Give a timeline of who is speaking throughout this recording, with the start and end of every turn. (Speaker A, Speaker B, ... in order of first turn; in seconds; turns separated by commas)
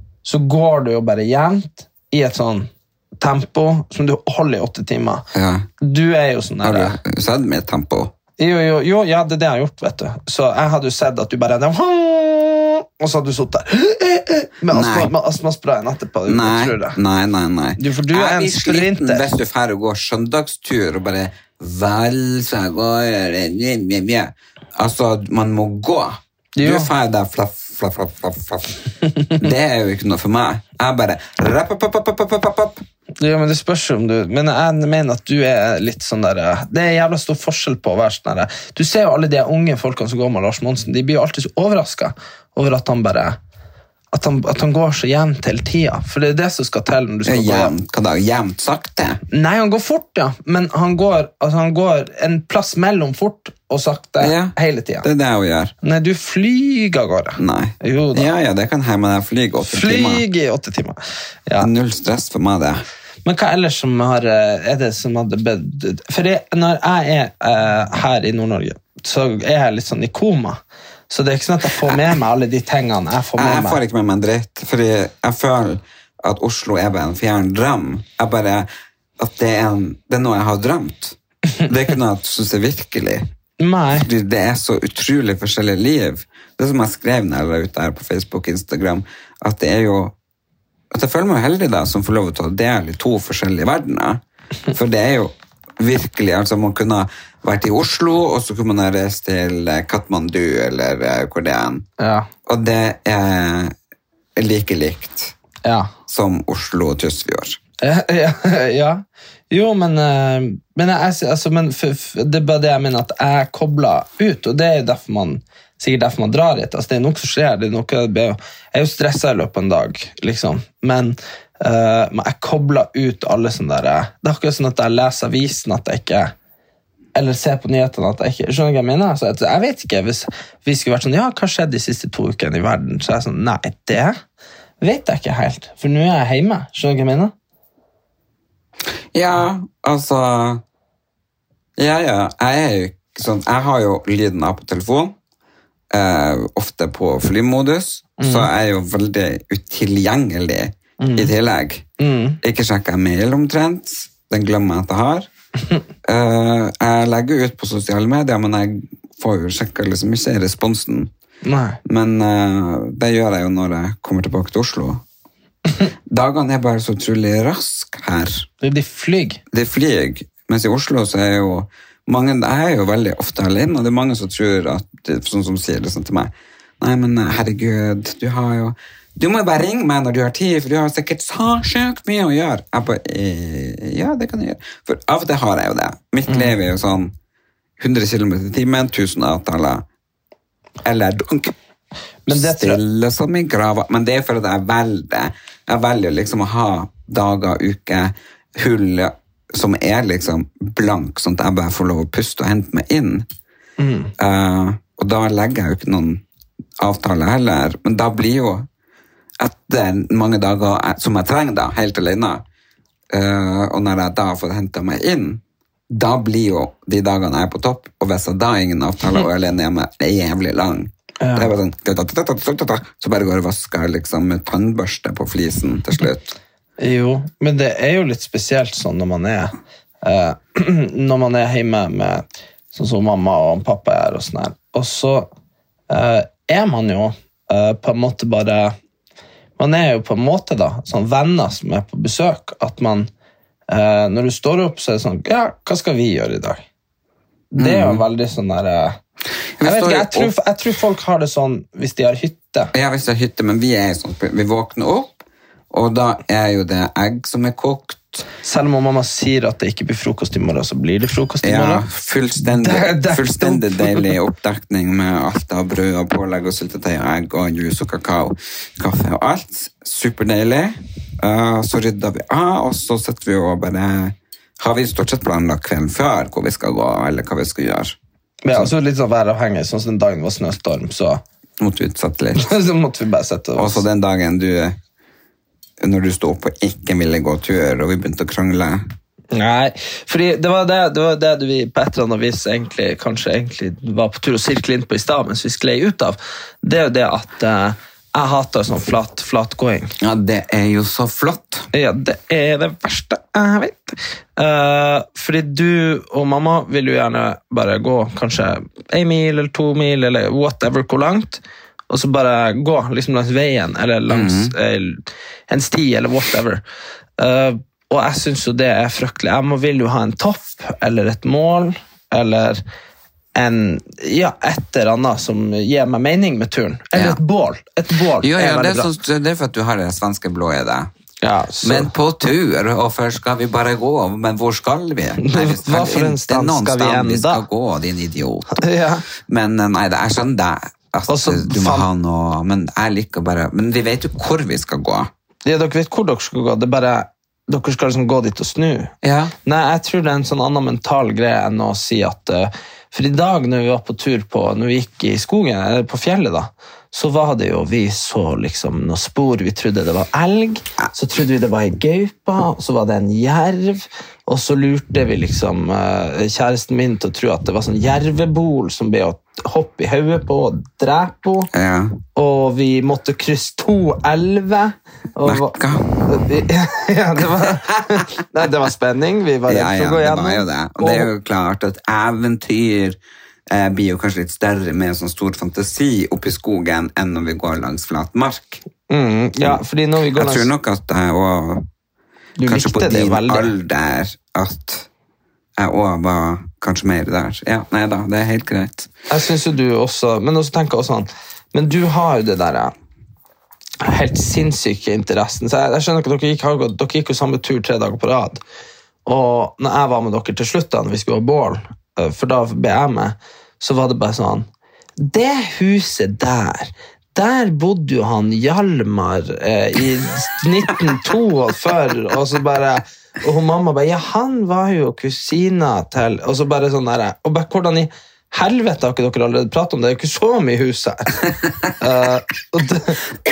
Speaker A: 0.2-5.2, Speaker B: 5.3-5.7, Speaker A: 5.8-7.0, Speaker B: 6.6-8.1, Speaker A: 8.4-17.0, Speaker B: 14.7-15.1, Speaker B: 16.3-28.8, Speaker A: 17.8-19.3, Speaker A: 26.6-26.9, Speaker B: 29.3-32.8, Speaker A: 33.2-43.4, Speaker A: 44.1-47.7, Speaker B: 47.2-49.2, Speaker A: 49.3-55.1, Speaker B: 54.2-55.7, Speaker A: 55.8-58.3, Speaker B: 57.4-60.2, Speaker A: 59.6-61.7, Speaker B: 61.6-62.8, Speaker A: 63.2-73.8, Speaker B: 73.3-83.3, Speaker A: 83.6-84.1, Speaker B: 83.9-90.1, Speaker B: 90.9-101.9, Speaker A: 102.0-102.3, Speaker B: 102.5-103.7, Speaker B: 104.4-105.3, Speaker A: 105.6-105.9, Speaker B: 106.1-107.6, Speaker A: 107.8-126.3, Speaker A: 127.2-134.2, Speaker A: 134.8-137.3, Speaker B: 139.1-140.6, Speaker B: 141.8-145.2, Speaker B: 145.9-151.9, Speaker A: 148.2-148.5, Speaker A: 151.0-151.3, Speaker A: 152.0-152.4, Speaker B: 152.4-155.3, Speaker B: 156.0-161.1, Speaker A: 161.4-161.8, Speaker B: 161.8-165.0, Speaker B: 166.1-168.5, Speaker A: 168.6-169.4, Speaker B: 169.5-187.1, Speaker A: 186.3-186.6, Speaker B: 187.8-189.9, Speaker B: 190.8-191.6, Speaker A: 192.3-192.8, Speaker B: 192.3-203.3, Speaker A: 203.8-204.1, Speaker B: 204.2-206.2, Speaker B: 206.8-208.7, Speaker B: 209.4-212.4, Speaker B: 213.1-226.4, Speaker A: 221.2-221.5, Speaker A: 226.8-235.3, Speaker A: 235.9-238.8, Speaker A: 239.6-243.1, Speaker A: 243.7-246.6, Speaker A: 247.5-249.0, Speaker B: 247.6-248.0, Speaker B: 249.6-250.3, Speaker A: 249.6-252.7, Speaker B: 252.7-258.3, Speaker A: 258.4-261.9, Speaker B: 261.4-278.0, Speaker A: 262.5-264.1, Speaker A: 278.4-281.2, Speaker B: 281.6-282.5, Speaker A: 282.4-283.8, Speaker B: 283.6-284.8, Speaker B: 285.8-288.8, Speaker A: 289.3-299.9, Speaker B: 300.0-301.7, Speaker A: 301.7-316.6, Speaker B: 314.1-314.6, Speaker A: 317.2-322.6, Speaker A: 323.4-328.9, Speaker B: 326.9-327.2, Speaker B: 328.2-330.9, Speaker A: 331.2-331.9, Speaker B: 331.6-338.6, Speaker A: 335.2-337.4, Speaker A: 338.6-339.1, Speaker B: 339.2-345.1, Speaker A: 341.1-341.9, Speaker A: 345.4-348.9, Speaker B: 349.0-349.3, Speaker A: 349.4-371.5, Speaker B: 371.5-372.0, Speaker A: 372.1-381.1, Speaker B: 375.2-376.2, Speaker B: 379.5-388.6, Speaker A: 388.9-390.5, Speaker B: 390.1-391.7, Speaker A: 392.4-393.5, Speaker B: 392.4-394.9, Speaker B: 395.6-398.9, Speaker A: 399.1-402.7, Speaker A: 403.8-408.4, Speaker A: 409.1-433.1